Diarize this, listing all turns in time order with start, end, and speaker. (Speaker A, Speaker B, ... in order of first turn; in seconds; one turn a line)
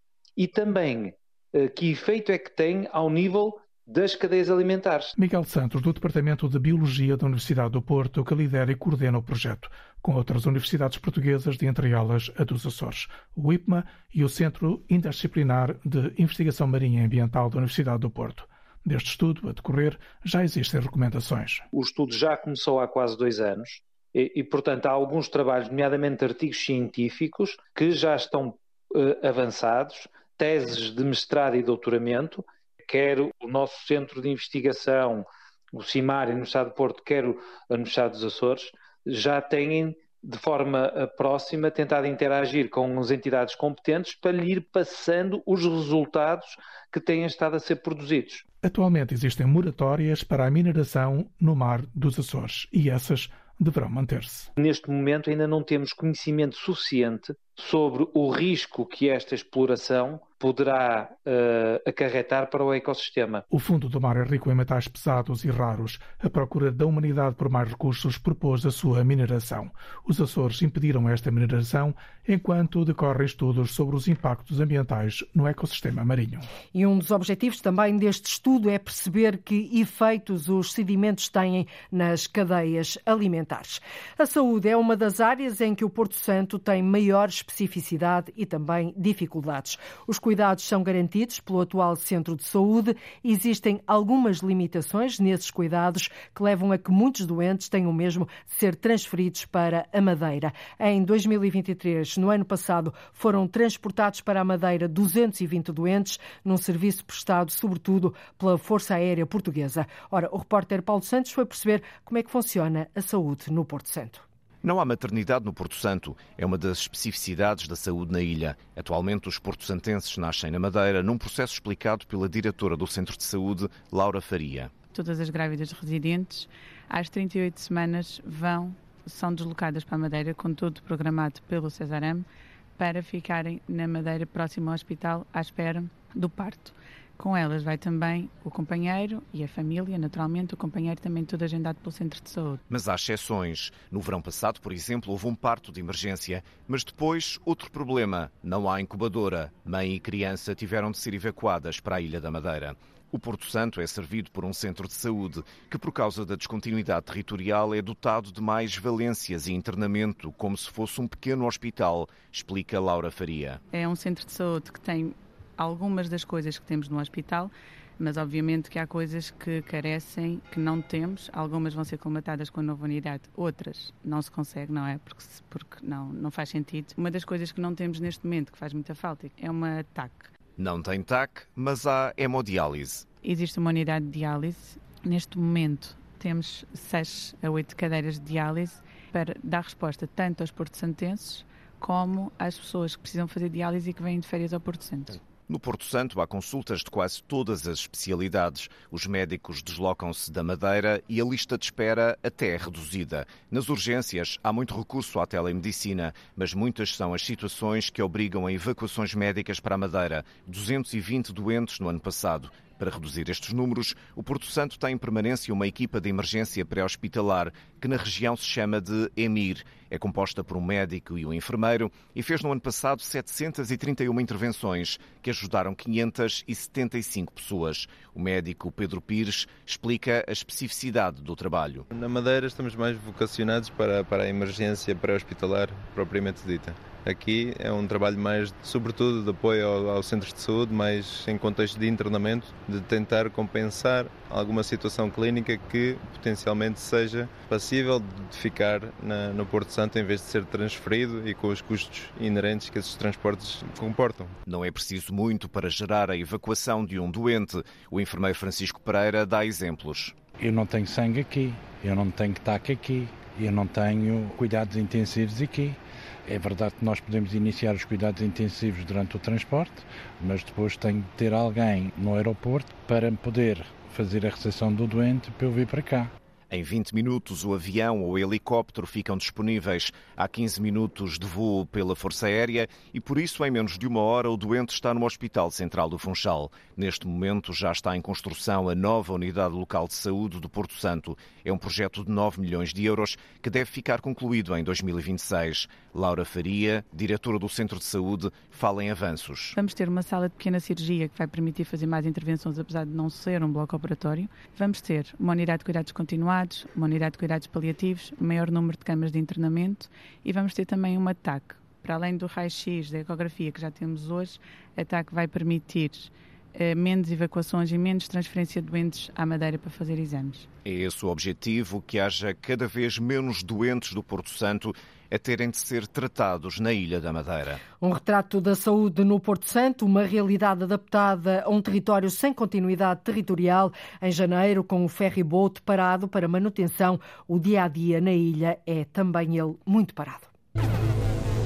Speaker A: 0.4-5.1
Speaker B: 5.2-21.6
Speaker A: 21.7-48.4
Speaker B: 48.6-54.5
Speaker A: 54.6-63.4
Speaker B: 63.5-76.5
Speaker C: 76.7-114.2
Speaker D: 114.6-124.7
Speaker E: 124.9-132.3
Speaker E: 132.8-142.6
Speaker D: 142.7-163.6
Speaker E: 163.7-180.3
Speaker D: 180.6-183.1
Speaker E: 183.2-195.2
Speaker D: 195.5-231.9
Speaker F: 231.9-254.4
Speaker D: 254.5-260.1
Speaker G: 260.4-276.1
Speaker D: 276.5-299.6
Speaker E: 299.6-320.5
Speaker D: 320.6-327.6
Speaker C: 327.8-340.3